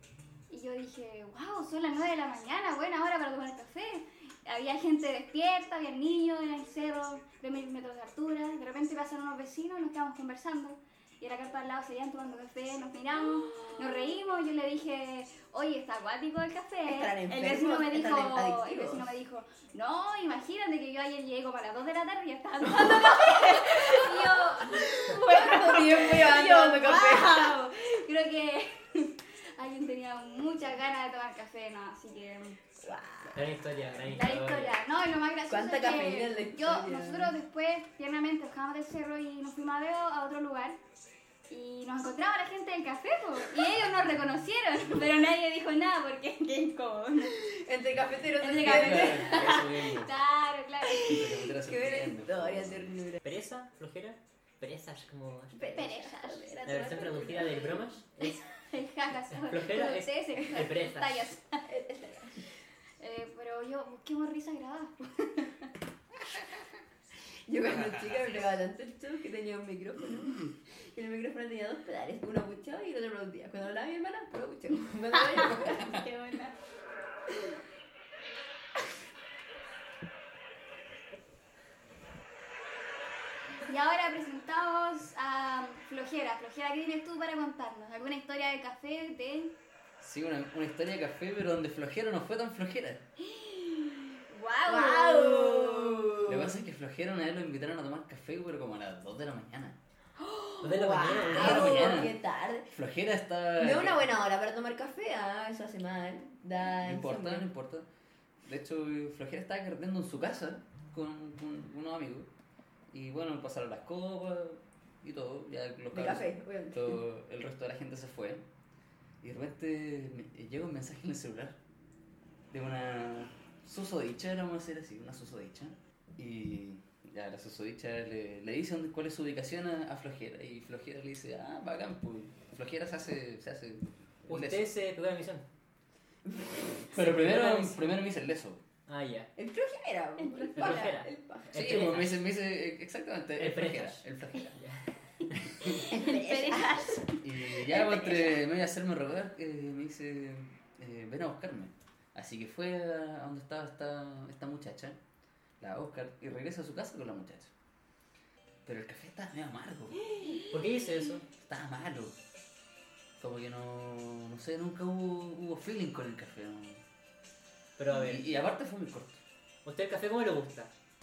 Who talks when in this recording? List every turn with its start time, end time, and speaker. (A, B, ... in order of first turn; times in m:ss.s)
0:00.5-0:32.6 A
0:13.2-0:14.2 B
0:16.9-0:19.1 B
0:22.7-0:27.5 B
0:32.8-0:33.4 B
0:33.3-0:34.7 C
0:34.1-0:40.8 A
0:35.5-0:37.3 B
0:41.5-0:47.4 A
0:47.4-0:49.6 B
0:48.4-0:51.2 A
0:48.6-0:50.1 D
0:50.8-0:53.2 B
0:51.0-0:52.9 D
0:53.2-0:55.8 C
0:55.5-0:57.8 B
0:55.6-0:56.5 A
0:56.6-0:58.4 C
0:58.2-1:01.6 A
0:59.3-1:01.3 C
1:01.6-1:02.4 B
1:03.0-1:05.7 A
1:07.5-1:16.0 B
1:15.2-1:16.6 A
1:23.7-1:29.6 A
1:30.0-1:33.0 D
1:33.4-1:33.8 A
1:34.3-1:36.2 A
1:34.6-1:36.5 B
1:36.2-1:39.8 D
1:40.2-1:42.7 B
1:40.6-1:42.0 C
1:41.2-1:42.2 D
1:42.7-1:44.1 D
1:43.6-1:47.5 B
1:46.8-1:47.9 D
1:48.4-1:52.3 D
1:52.9-1:58.4 D
1:55.9-1:57.0 B
1:59.2-2:01.6 D
2:02.5-2:14.7 D
2:14.3-2:15.4 C
2:16.3-2:16.6 B
2:16.8-2:18.6 D
2:16.9-2:17.9 C
2:18.9-2:19.3 C
2:19.4-2:21.5 B
2:20.2-2:20.8 A
2:20.5-2:22.2 C
2:21.5-2:24.6 D
2:23.4-2:25.4 C
2:25.6-2:25.8 D
2:25.7-2:28.4 B
2:25.8-2:27.2 A
2:27.2-2:35.0 D
2:35.6-2:37.5 D
2:38.6-2:40.0 D
2:40.4-2:41.3 C
2:41.4-2:42.2 D
2:43.2-2:46.8 D
2:47.8-2:48.4 C
2:47.9-2:49.2 D
2:49.6-2:50.7 C